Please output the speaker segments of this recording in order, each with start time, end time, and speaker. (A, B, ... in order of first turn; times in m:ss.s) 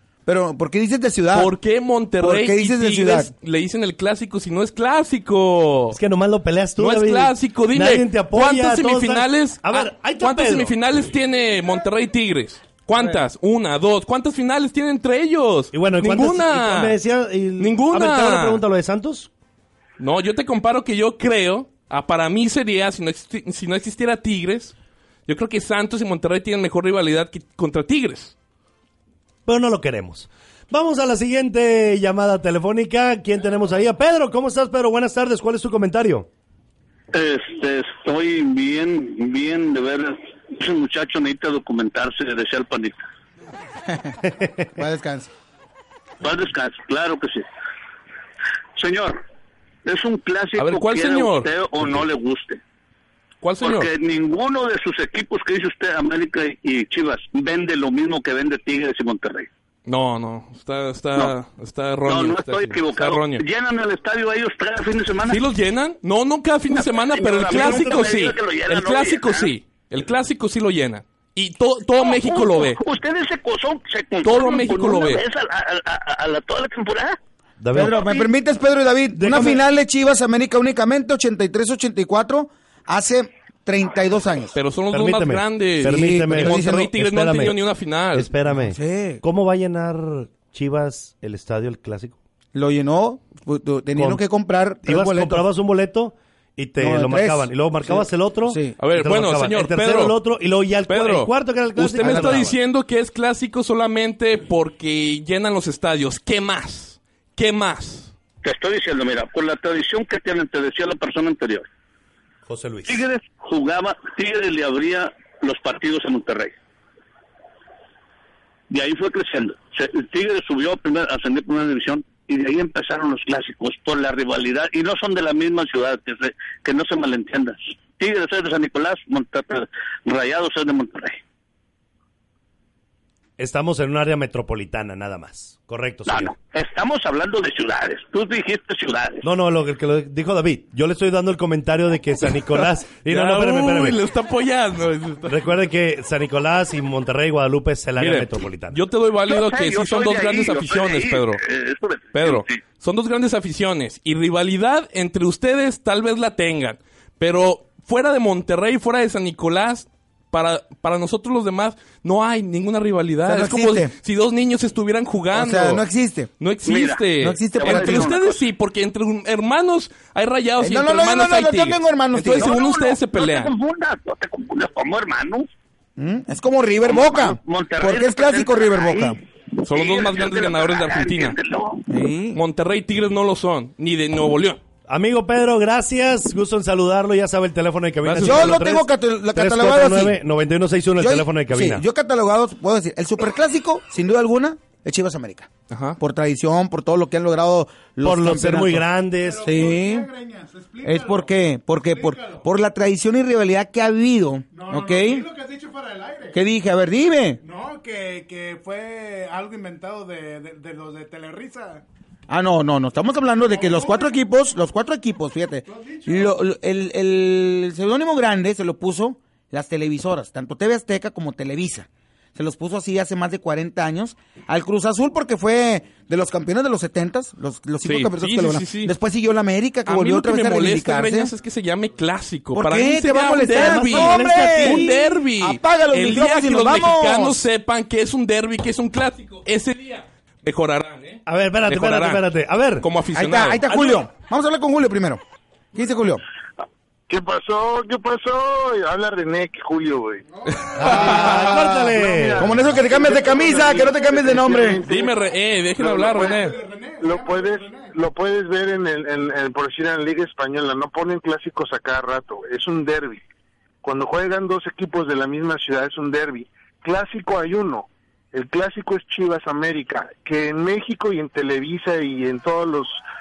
0:00.3-0:01.5 A
0:01.3-0:06.0 B
0:02.2-0:03.3 A
0:05.9-0:10.8 C
0:06.8-0:17.0 B
0:15.7-0:19.3 C
0:17.6-0:18.6 B
0:20.0-0:24.8 B
0:25.3-0:28.4 B
0:29.5-0:36.3 C
0:37.1-0:43.1 D
0:43.9-0:44.2 A
0:44.8-0:45.3 A
0:46.2-0:47.4 D
0:48.8-0:49.2 D
0:49.8-0:52.6 D
0:50.6-0:52.0 B
0:53.4-0:53.9 B
0:53.6-0:59.5 D
0:59.8-1:03.4 B
1:02.0-1:05.4 D
1:05.3-1:12.8 B
1:06.7-1:09.5 D
1:07.4-1:08.2 C
1:12.0-1:17.2 D
1:14.2-1:15.2 B
1:17.6-1:18.0 C
1:17.7-1:24.6 A
1:17.9-1:18.3 D
1:19.2-1:19.6 C
1:24.5-1:28.3 B
1:24.9-1:27.6 C
1:25.8-1:26.9 A
1:28.1-1:32.2 C
1:28.5-1:29.2 A
1:32.5-1:35.4 A
1:34.0-1:34.2 C
1:34.8-1:42.6 C
1:36.8-1:38.8 A
1:38.8-1:40.2 B
1:40.9-1:48.1 B
1:42.0-1:42.5 A
1:48.4-1:51.7 D
1:52.5-1:53.0 C
1:52.8-1:56.6 D
1:58.7-2:11.2 D
2:13.4-2:16.4 C
2:16.1-2:19.2 D
2:19.2-2:24.0 C
2:22.5-2:25.4 B
2:25.3-2:28.8 C
2:28.0-2:31.4 B
2:29.3-2:32.5 D
2:32.1-2:45.9 B
2:43.2-2:43.9 A
2:45.3-2:46.3 A
2:46.4-2:53.6 B
2:46.6-2:48.4 D
2:47.1-2:48.2 A
2:50.6-2:52.6 A
2:52.3-2:55.5 D
2:56.0-2:59.2 A
2:56.8-3:01.9 D
2:59.6-3:01.4 B
3:01.9-3:02.4 A
3:02.3-3:04.6 B
3:04.9-3:11.8 C
3:08.0-3:08.6 B
3:08.2-3:10.2 A
3:11.0-3:18.8 A
3:15.7-3:16.0 B
3:18.0-3:19.5 C
3:19.2-3:22.5 E
3:19.4-3:20.1 A
3:20.8-3:25.3 A
3:24.5-3:26.4 E
3:26.3-3:27.4 A
3:27.4-3:31.8 E
3:32.3-3:51.3 A
3:33.4-3:34.2 E
3:35.7-3:36.4 E
3:47.8-3:48.9 B
3:49.9-4:02.3 B
3:52.5-3:57.5 A
3:53.5-3:54.9 C
4:01.3-4:02.9 C
4:02.8-4:04.0 B
4:03.1-4:05.2 A
4:05.7-4:06.2 A
4:07.1-4:10.2 F
4:10.3-4:10.9 E
4:10.6-4:11.6 B
4:10.8-4:12.6 C
4:10.8-4:15.2 F
4:10.9-4:11.5 A
4:12.4-4:14.8 A
4:13.3-4:14.1 E
4:14.8-4:16.6 B
4:15.8-4:16.1 F
4:16.0-4:18.0 E
4:17.0-4:23.2 F
4:23.8-4:33.0 F